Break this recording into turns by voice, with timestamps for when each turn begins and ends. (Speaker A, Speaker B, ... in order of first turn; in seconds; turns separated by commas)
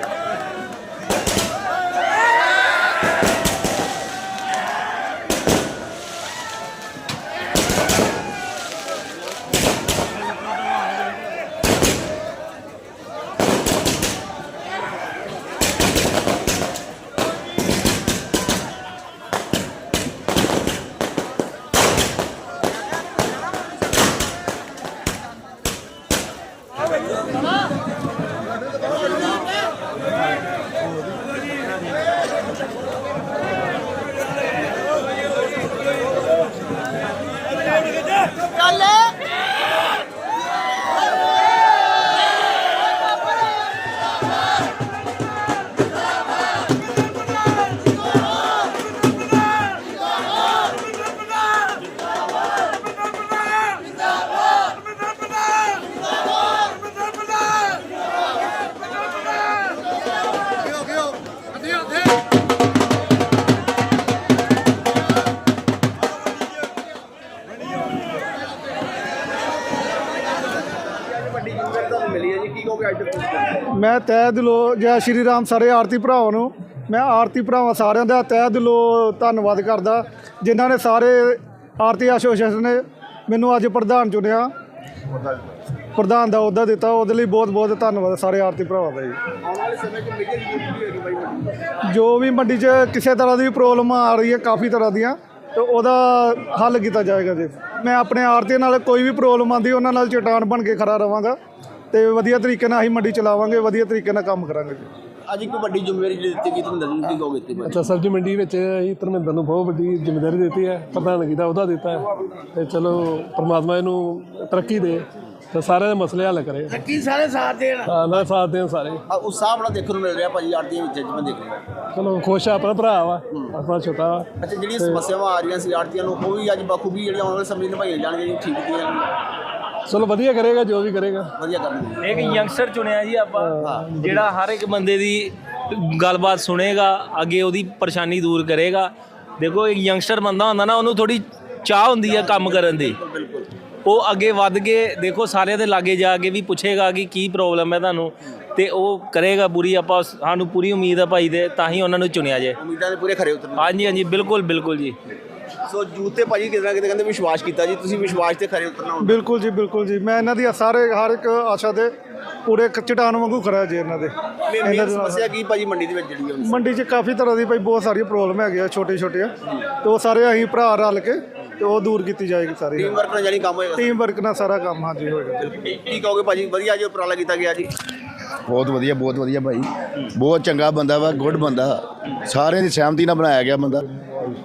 Speaker A: 71.1-73.6, Speaker B: 73.7-84.5, Speaker B: 86.0-89.2, Speaker A: 89.4-91.6, Speaker B: 91.9-101.3, Speaker B: 101.9-104.8, Speaker A: 105.3-107.9, Speaker C: 107.6-117.0, Speaker C: 117.8-119.0, Speaker A: 119.1-121.6, Speaker C: 121.9-125.0, Speaker A: 124.4-129.1, Speaker C: 129.9-131.3, Speaker A: 131.4-132.1, Speaker D: 132.0-142.9, Speaker A: 133.6-133.9, Speaker C: 133.7-134.0, Speaker A: 142.0-143.5, Speaker D: 143.8-152.6, Speaker A: 152.6-153.7, Speaker D: 153.6-154.9, Speaker A: 155.7-159.2, Speaker B: 159.0-161.9, Speaker B: 162.4-165.3, Speaker A: 164.5-166.7, Speaker B: 166.4-169.3, Speaker B: 169.8-172.9, Speaker A: 172.7-174.0, Speaker B: 173.8-175.5, Speaker A: 175.4-177.7, Speaker E: 178.5-183.8